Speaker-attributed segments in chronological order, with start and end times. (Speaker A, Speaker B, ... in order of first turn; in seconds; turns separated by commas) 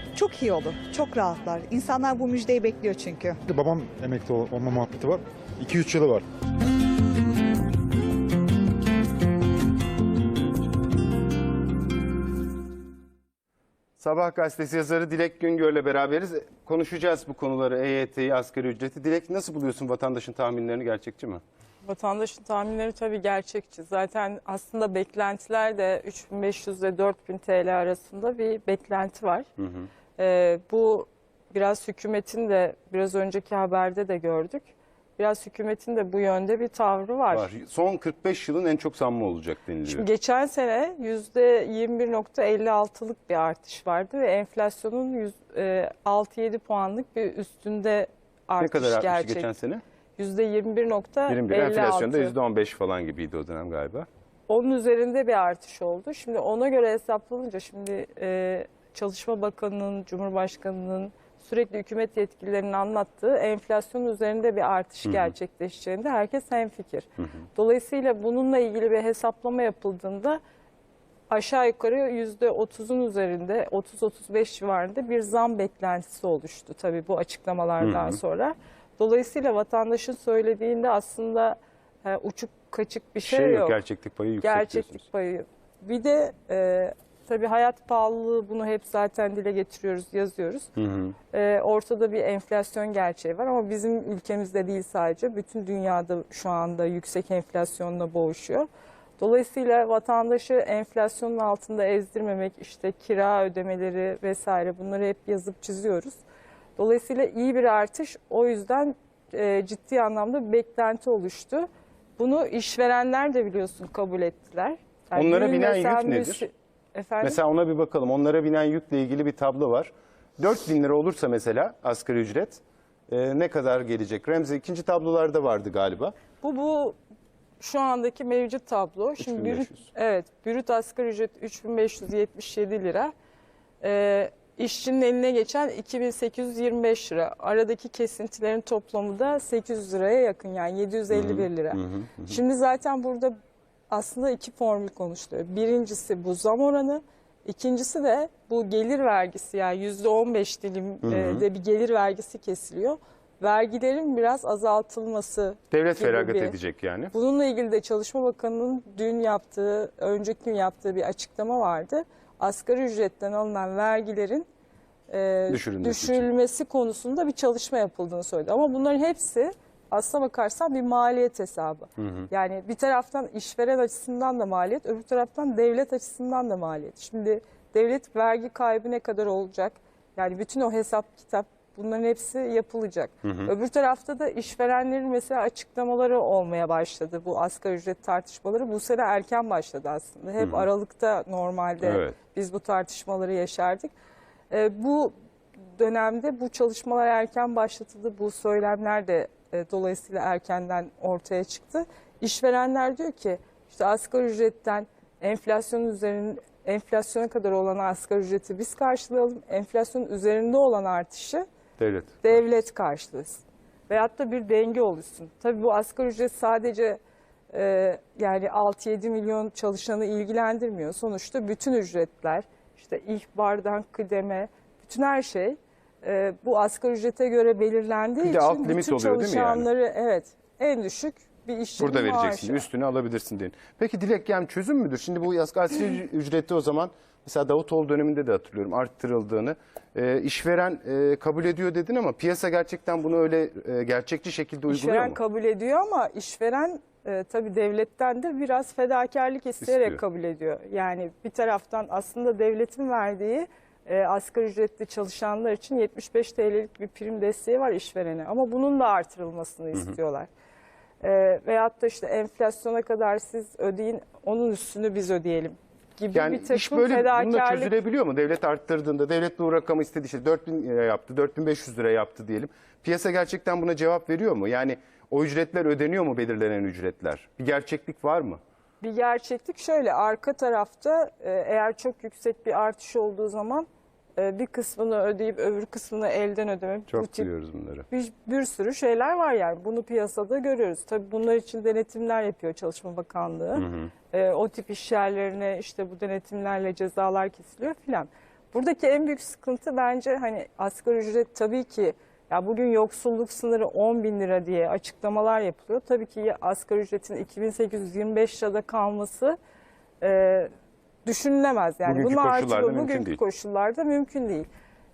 Speaker A: 0.1-3.4, Speaker B: 3.5-6.2, Speaker C: 14.0-21.4, Speaker D: 21.8-29.5, Speaker C: 29.6-29.9, Speaker D: 30.2-37.5, Speaker C: 37.3-40.1, Speaker D: 39.9-49.5, Speaker C: 48.6-49.8, Speaker D: 50.2-52.3, Speaker C: 51.3-54.1, Speaker D: 54.5-70.4, Speaker C: 65.0-65.3, Speaker D: 71.3-83.8, Speaker C: 77.8-78.2, Speaker C: 83.2-85.0, Speaker D: 84.4-90.7, Speaker C: 90.8-91.2, Speaker D: 91.3-98.7, Speaker D: 99.2-106.2, Speaker D: 106.8-117.4, Speaker C: 115.2-116.5, Speaker C: 117.2-126.2, Speaker D: 126.4-127.0, Speaker D: 127.6-133.1, Speaker C: 129.2-129.9, Speaker D: 133.8-143.3, Speaker C: 141.1-142.4, Speaker D: 143.9-156.6, Speaker C: 151.0-151.5, Speaker C: 155.7-157.1, Speaker D: 157.1-164.5, Speaker D: 165.1-193.9, Speaker C: 165.5-166.3, Speaker C: 172.0-172.3, Speaker C: 183.2-183.5, Speaker C: 190.4-190.7, Speaker C: 191.8-192.2, Speaker D: 194.5-195.1, Speaker D: 195.8-211.4, Speaker C: 211.8-212.4, Speaker D: 212.2-217.0, Speaker D: 217.5-232.7, Speaker C: 228.2-229.7, Speaker C: 231.8-245.2, Speaker D: 244.7-260.3, Speaker C: 249.6-250.0, Speaker D: 261.0-267.7, Speaker C: 266.1-278.4, Speaker D: 278.8-283.7, Speaker D: 284.2-287.3, Speaker C: 286.9-287.9, Speaker D: 287.9-309.4, Speaker C: 293.6-293.9, Speaker D: 310.0-310.5, Speaker D: 311.1-314.5, Speaker C: 311.9-313.2